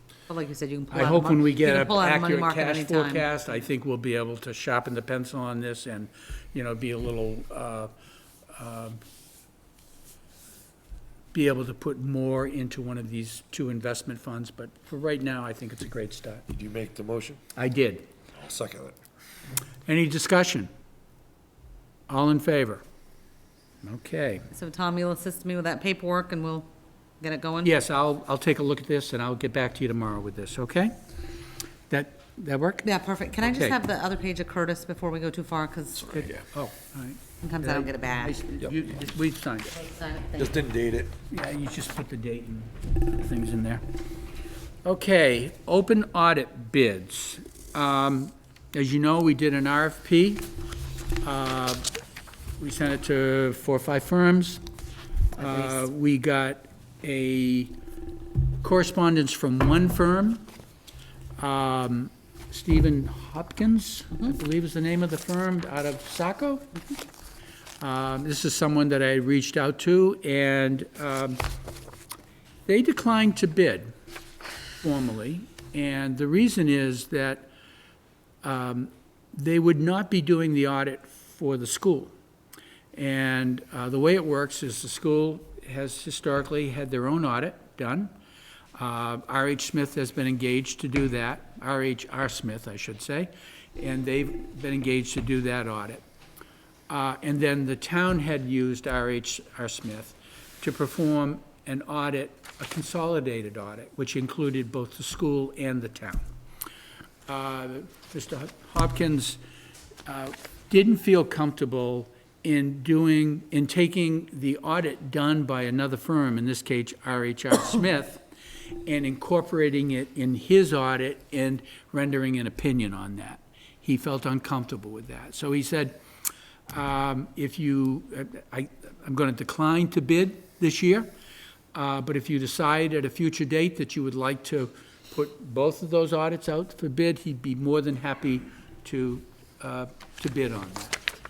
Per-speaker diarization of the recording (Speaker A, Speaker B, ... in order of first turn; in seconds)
Speaker A: 0.3-3.3, 24.5-26.7, 27.2-27.7, 32.8-36.3, 37.4-38.4, 39.7-40.6, 55.4-55.8
Speaker B: 0.9-7.9, 8.5-9.0, 11.3-16.4, 17.6-18.0, 19.9-20.7, 22.1-22.8, 23.8-24.4, 27.6-30.9, 31.9-32.8, 33.4-33.7, 36.1-39.7, 41.3-43.8, 44.8-50.5, 51.2-51.9, 52.6-54.6, 55.4-57.7, 58.6-60.4, 61.4-66.7, 67.8-71.4, 72.7-73.9, 74.8-77.5, 78.4-82.1, 82.9-88.1, 88.8-96.0, 96.9-106.2, 107.3-109.4, 110.0-118.2, 118.8-126.0, 126.7-131.1, 131.7-141.0
Speaker C: 16.5-17.4, 18.4-18.9, 40.4-41.1